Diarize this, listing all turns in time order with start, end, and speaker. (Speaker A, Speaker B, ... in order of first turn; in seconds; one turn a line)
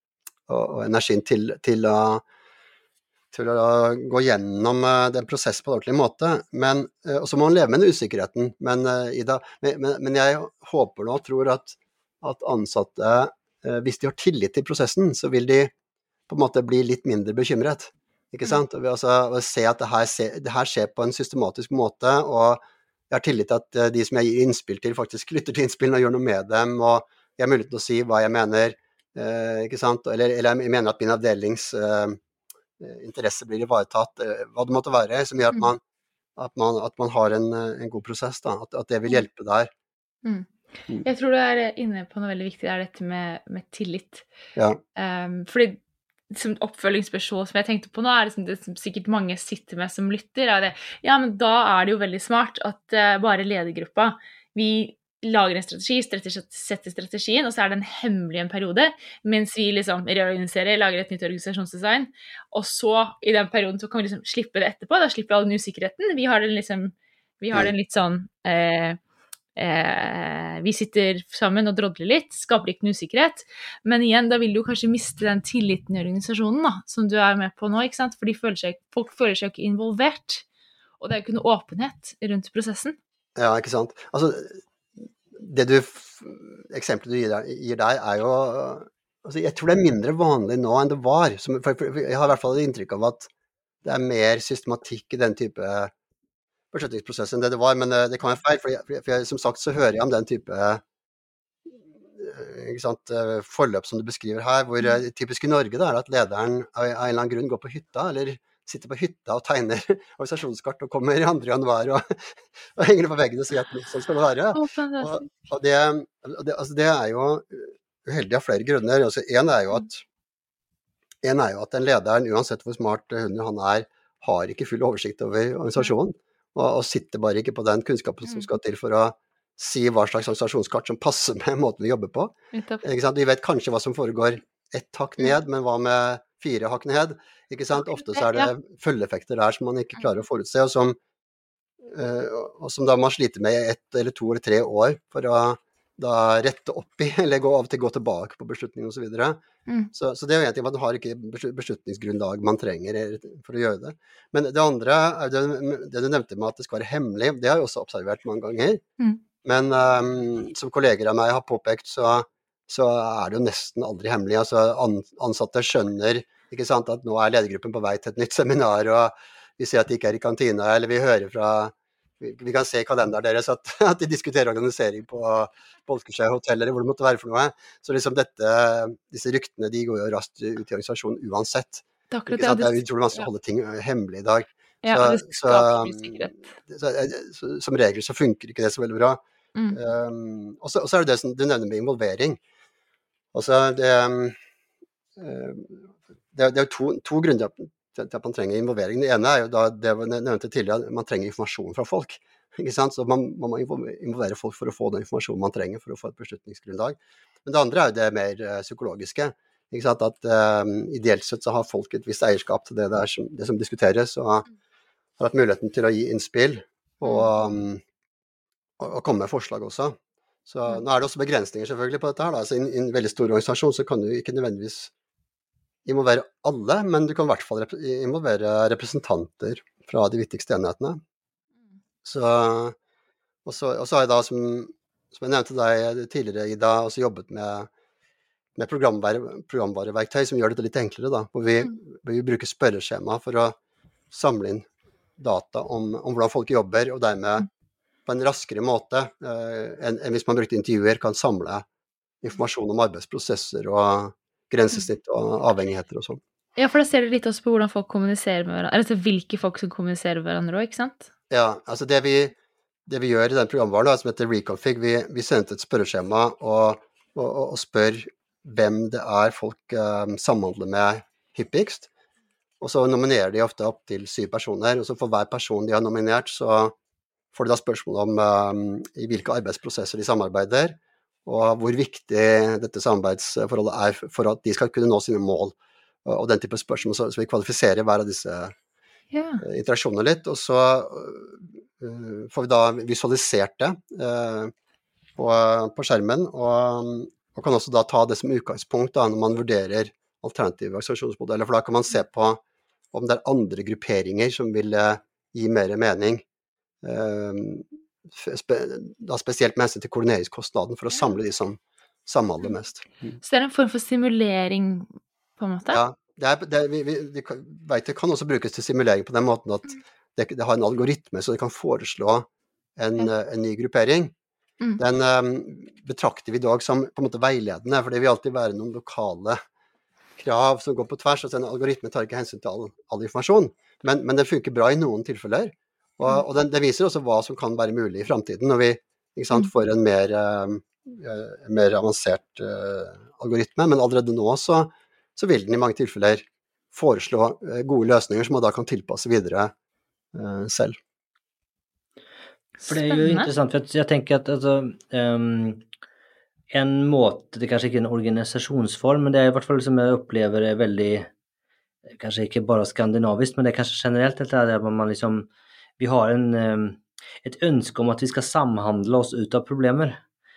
Speaker A: 0.5-2.2
Speaker A: 3.3-15.7
Speaker A: 16.3-32.2
Speaker A: 32.8-35.8
Speaker A: 36.4-39.7
Speaker B: 40.2-40.5
Speaker B: 41.0-44.2
Speaker A: 44.5-44.8
Speaker B: 45.0-45.8
Speaker B: 46.3-69.0
Speaker B: 69.5-80.4
Speaker B: 81.0-83.0
Speaker A: 83.3-93.3
Speaker A: 93.8-95.9
Speaker A: 96.7-100.8
Speaker A: 102.2-120.0
Speaker B: 114.5-115.3
Speaker A: 121.2-141.0
Speaker B: 128.2-128.5
Speaker B: 132.5-132.8
Speaker B: 137.8-138.5
Speaker A: 141.8-149.4
Speaker A: 149.9-158.8
Speaker A: 159.4-189.2
Speaker B: 182.1-183.2
Speaker B: 184.8-186.4
Speaker A: 189.7-192.4
Speaker A: 193.3-194.4
Speaker A: 195.2-214.4
Speaker A: 215.2-217.8
Speaker A: 218.8-224.9
Speaker A: 225.8-231.0
Speaker A: 232.0-232.8
Speaker A: 233.4-237.7
Speaker A: 238.6-243.6
Speaker A: 244.1-244.7
Speaker A: 245.2-247.5
Speaker A: 248.1-251.6
Speaker A: 252.2-256.2
Speaker B: 256.6-261.1
Speaker A: 261.3-262.3
Speaker A: 262.9-271.9
Speaker A: 272.6-276.7
Speaker A: 277.3-288.5
Speaker B: 289.1-289.4
Speaker A: 289.4-294.5
Speaker A: 295.2-302.4
Speaker A: 302.9-306.2
Speaker A: 306.8-313.2
Speaker B: 313.2-315.8
Speaker A: 315.7-324.1
Speaker A: 324.8-329.4
Speaker A: 330.2-349.5
Speaker A: 350.1-350.8
Speaker B: 352.6-353.3
Speaker C: 352.6-355.6
Speaker C: 356.5-361.1
Speaker C: 361.9-365.3
Speaker C: 365.8-370.0